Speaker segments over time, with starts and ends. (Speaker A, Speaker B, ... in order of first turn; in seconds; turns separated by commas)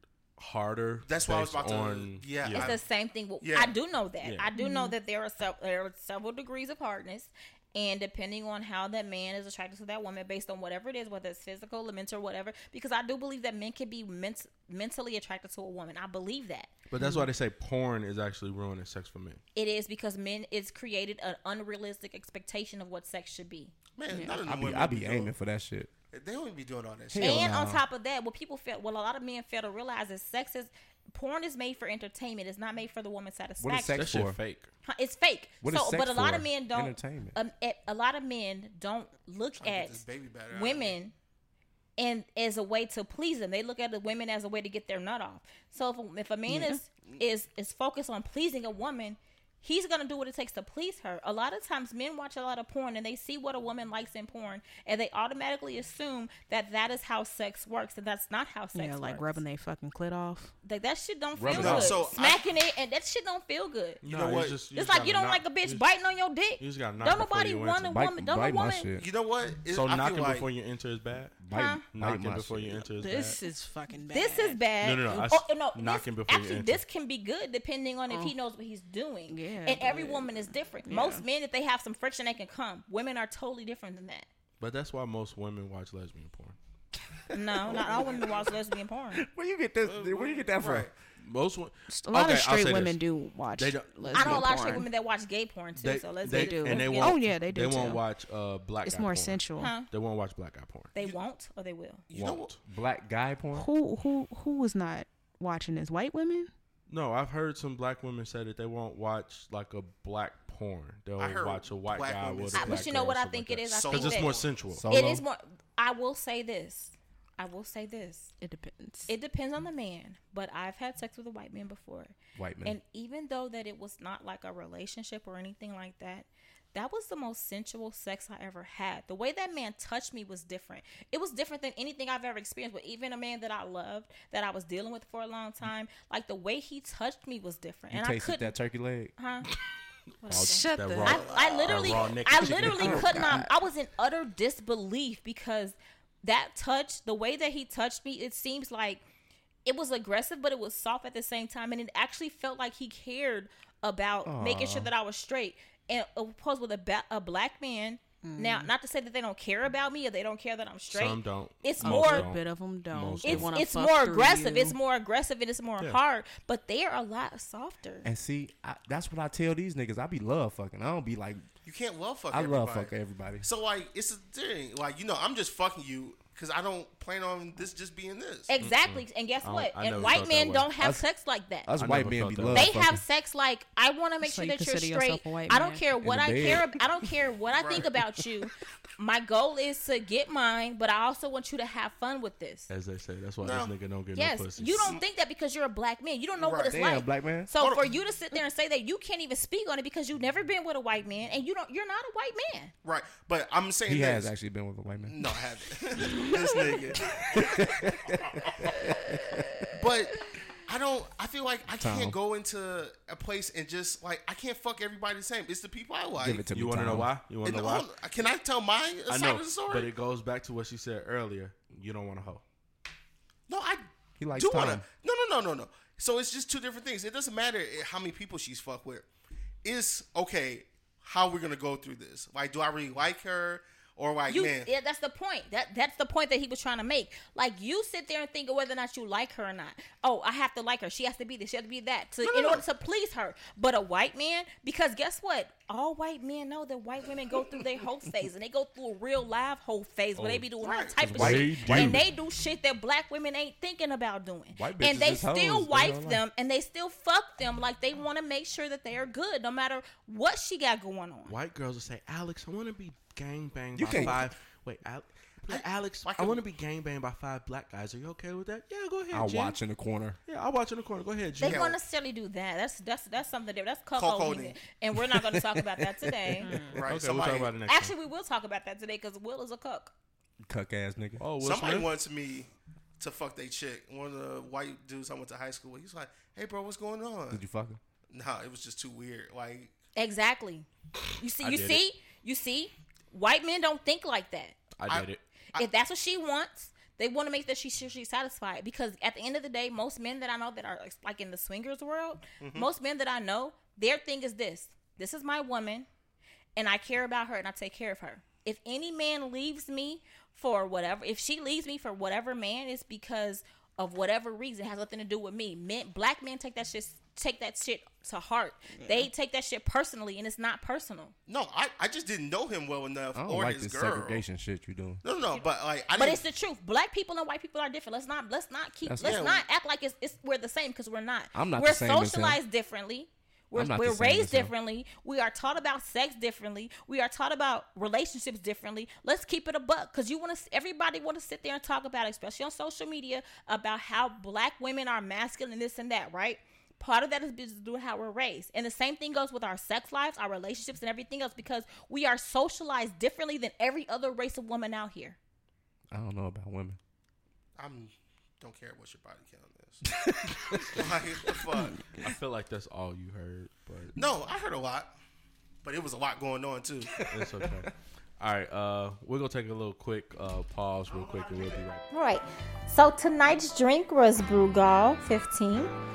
Speaker A: 0.4-2.8, Speaker B: 1.1-2.9, Speaker C: 2.5-16.7, Speaker B: 3.4-3.8, Speaker A: 4.2-4.5, Speaker D: 4.5-5.0, Speaker A: 16.9-19.4, Speaker D: 17.0-17.3, Speaker C: 19.6-23.8, Speaker B: 24.0-25.3, Speaker D: 24.1-24.4, Speaker E: 24.4-25.9, Speaker B: 26.1-27.5, Speaker E: 27.1-27.8, Speaker C: 27.2-34.2, Speaker E: 33.6-34.4, Speaker A: 33.9-34.7, Speaker C: 34.8-41.1, Speaker E: 35.6-37.4, Speaker B: 39.6-41.0, Speaker C: 42.0-59.4, Speaker D: 46.5-46.8, Speaker D: 58.7-60.5, Speaker C: 60.6-64.0, Speaker E: 61.4-62.0, Speaker B: 61.5-62.4, Speaker A: 64.0-65.9, Speaker B: 64.0-64.6, Speaker C: 64.7-68.9, Speaker A: 66.6-68.0, Speaker E: 67.9-69.0, Speaker B: 69.0-70.5, Speaker A: 69.7-71.4, Speaker E: 71.4-72.9, Speaker C: 71.5-71.8, Speaker A: 71.9-73.4, Speaker D: 73.0-74.6, Speaker C: 74.1-84.3, Speaker A: 74.8-76.8, Speaker D: 78.1-78.3, Speaker D: 79.3-81.2, Speaker A: 84.6-86.6, Speaker C: 87.3-89.2, Speaker E: 87.3-88.2, Speaker B: 87.7-88.3, Speaker E: 89.1-90.9, Speaker B: 89.8-90.9, Speaker A: 91.2-93.0, Speaker D: 91.9-94.9, Speaker A: 93.5-94.8, Speaker C: 94.1-97.2, Speaker A: 95.8-100.9, Speaker D: 96.2-98.0, Speaker D: 98.8-99.7, Speaker C: 99.6-99.9, Speaker C: 101.0-102.0, Speaker B: 102.1-102.5, Speaker A: 102.1-102.6, Speaker E: 102.7-103.7, Speaker D: 103.5-106.5, Speaker A: 106.9-115.2, Speaker B: 111.2-113.0, Speaker C: 112.5-114.4, Speaker B: 113.7-114.8, Speaker C: 114.9-118.3, Speaker D: 118.4-119.1, Speaker C: 119.1-138.6, Speaker E: 122.4-122.8, Speaker E: 137.9-139.1, Speaker C: 139.2-139.5, Speaker C: 140.2-149.0, Speaker A: 140.2-143.2, Speaker D: 140.3-141.2, Speaker B: 141.0-142.2, Speaker E: 142.7-143.5, Speaker D: 142.7-143.5, Speaker C: 149.7-162.3, Speaker E: 154.2-154.9, Speaker D: 158.2-158.7, Speaker A: 160.9-163.5, Speaker D: 161.8-164.8, Speaker C: 163.2-168.1, Speaker E: 168.0-171.5, Speaker B: 171.7-178.5, Speaker E: 172.3-173.5, Speaker C: 178.5-181.7, Speaker A: 178.6-180.7, Speaker E: 180.8-181.0, Speaker E: 181.7-183.0, Speaker A: 181.8-182.8, Speaker C: 182.5-192.7, Speaker D: 184.2-185.8, Speaker E: 186.0-186.8, Speaker B: 187.5-187.9, Speaker A: 192.7-195.0, Speaker B: 193.4-193.8, Speaker C: 194.2-202.7, Speaker B: 196.4-196.8, Speaker E: 196.7-197.5, Speaker B: 197.6-197.9, Speaker B: 202.8-204.3, Speaker E: 203.9-205.2, Speaker B: 205.1-207.7, Speaker E: 207.3-209.5, Speaker B: 208.4-208.8, Speaker B: 209.8-216.5, Speaker E: 211.7-212.2, Speaker E: 216.2-217.1, Speaker A: 216.5-217.9, Speaker B: 217.4-219.9, Speaker A: 219.1-222.4, Speaker B: 223.5-229.1, Speaker E: 224.2-224.9, Speaker B: 229.6-234.7, Speaker C: 234.3-261.4, Speaker B: 242.2-242.6, Speaker A: 250.2-250.5, Speaker B: 250.6-251.1, Speaker E: 251.0-252.1, Speaker A: 251.1-252.1, Speaker E: 254.5-256.2, Speaker A: 261.3-269.6, Speaker E: 263.8-264.2, Speaker B: 263.9-264.2, Speaker B: 265.5-266.5, Speaker E: 269.1-270.2, Speaker A: 270.3-271.6, Speaker B: 271.4-271.8, Speaker C: 271.4-276.6, Speaker B: 273.9-274.6, Speaker E: 275.0-276.5, Speaker D: 276.4-276.8, Speaker B: 276.7-277.6, Speaker A: 276.8-277.9, Speaker C: 277.6-279.9, Speaker E: 280.4-281.2, Speaker A: 281.2-281.9, Speaker B: 281.4-287.4, Speaker E: 287.3-287.8, Speaker B: 288.1-289.7, Speaker C: 290.0-294.6, Speaker A: 291.4-291.8, Speaker A: 294.8-295.2, Speaker B: 294.9-295.6, Speaker C: 295.5-305.9, Speaker B: 302.4-302.7, Speaker C: 306.6-321.1, Speaker B: 321.3-324.2, Speaker E: 323.1-325.0, Speaker B: 325.0-326.2, Speaker C: 325.3-355.2, Speaker E: 328.9-329.2, Speaker B: 329.0-329.4, Speaker E: 331.3-332.4, Speaker E: 333.5-334.5, Speaker E: 355.9-356.8, Speaker B: 357.6-359.9, Speaker E: 359.9-361.7, Speaker B: 360.6-361.9, Speaker A: 361.9-364.0, Speaker B: 364.0-364.9, Speaker B: 365.6-367.0, Speaker E: 367.0-367.7, Speaker A: 367.1-371.9, Speaker C: 371.9-375.7